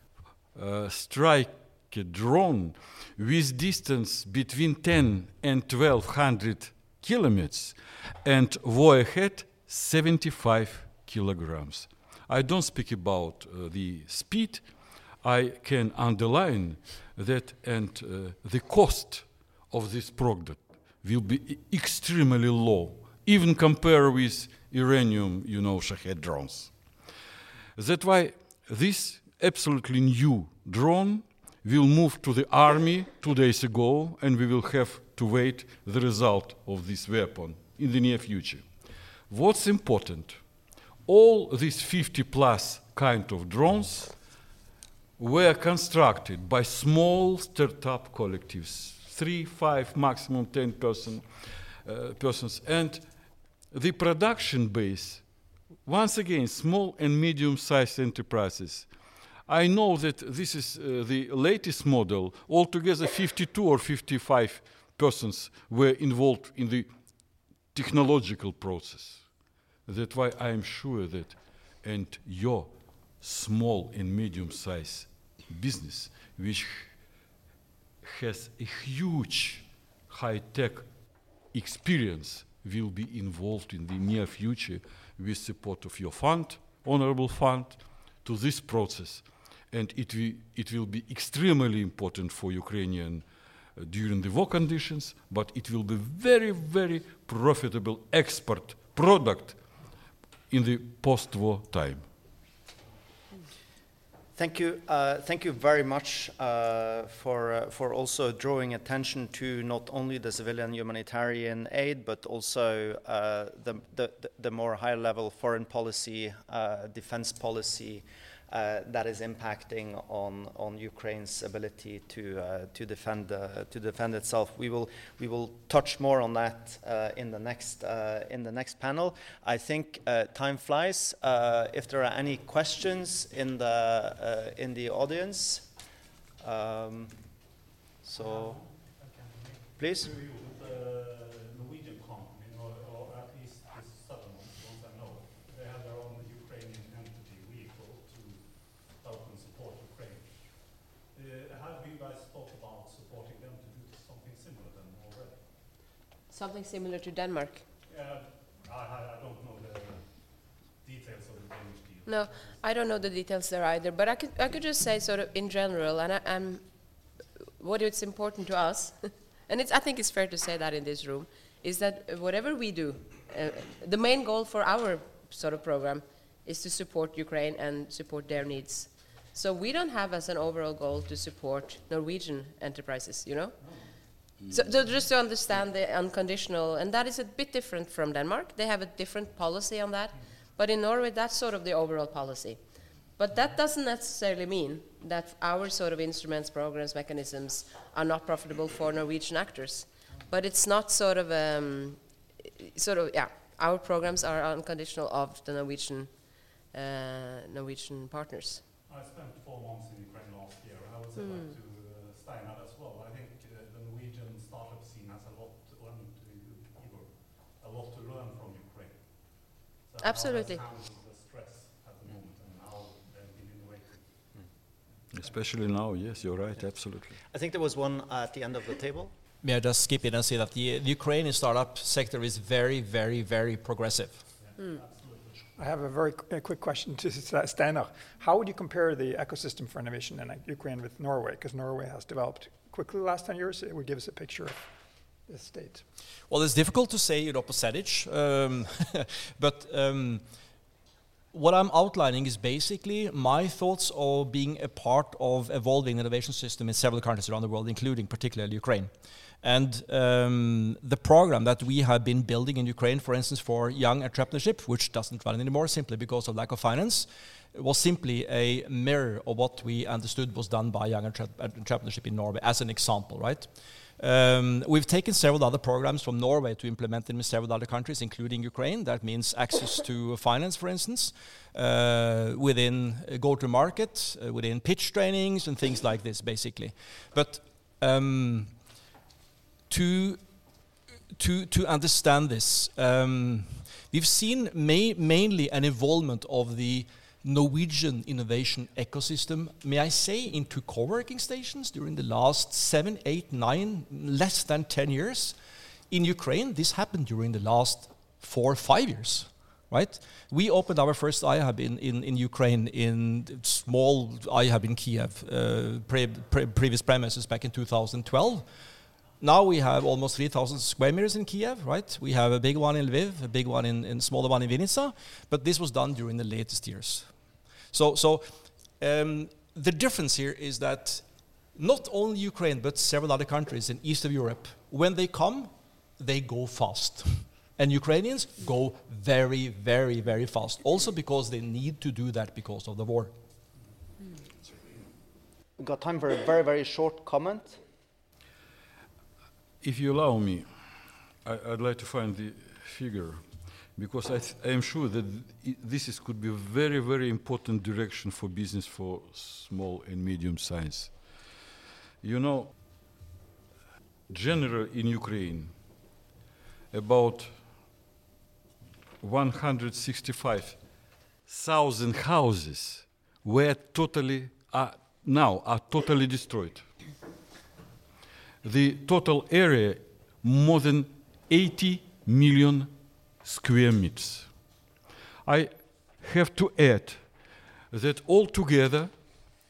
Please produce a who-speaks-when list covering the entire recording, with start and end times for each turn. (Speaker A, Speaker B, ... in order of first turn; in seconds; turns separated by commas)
Speaker A: 0.5-14.7, Speaker A: 15.2-26.7, Speaker A: 27.8-38.7, Speaker A: 39.3-40.4, Speaker A: 41.0-44.1, Speaker A: 45.2-51.2, Speaker A: 51.8-53.0, Speaker A: 53.7-55.2, Speaker A: 55.8-58.9, Speaker A: 59.5-66.9, Speaker A: 67.7-69.2, Speaker A: 69.9-76.9, Speaker A: 78.0-80.9, Speaker A: 81.5-99.6, Speaker A: 100.5-102.0, Speaker B: 104.3-135.7, Speaker B: 136.4-137.2, Speaker B: 138.0-138.6, Speaker C: 138.1-155.5, Speaker B: 139.8-140.1, Speaker D: 156.3-157.6, Speaker C: 157.9-162.6, Speaker D: 162.1-166.6, Speaker D: 167.6-183.6, Speaker D: 184.3-192.6, Speaker D: 193.2-206.1, Speaker D: 206.7-208.6, Speaker C: 208.9-224.2, Speaker D: 211.2-211.5, Speaker D: 220.0-220.6, Speaker A: 225.1-227.2, Speaker B: 227.3-229.1, Speaker E: 229.4-234.2, Speaker C: 234.4-235.5, Speaker F: 235.6-244.7, Speaker F: 245.2-245.8, Speaker E: 246.3-250.2, Speaker E: 251.3-288.6, Speaker E: 289.7-290.5, Speaker E: 291.1-305.4, Speaker E: 305.9-318.5, Speaker E: 319.2-327.1, Speaker E: 327.7-343.1, Speaker B: 345.6-347.6, Speaker A: 349.6-350.5, Speaker A: 351.2-353.2, Speaker A: 353.8-360.9, Speaker A: 362.0-362.5, Speaker A: 364.1-365.5, Speaker A: 366.7-367.3, Speaker A: 369.0-370.6, Speaker A: 371.3-376.7, Speaker A: 378.4-384.3, Speaker A: 385.2-387.1, Speaker A: 387.7-388.9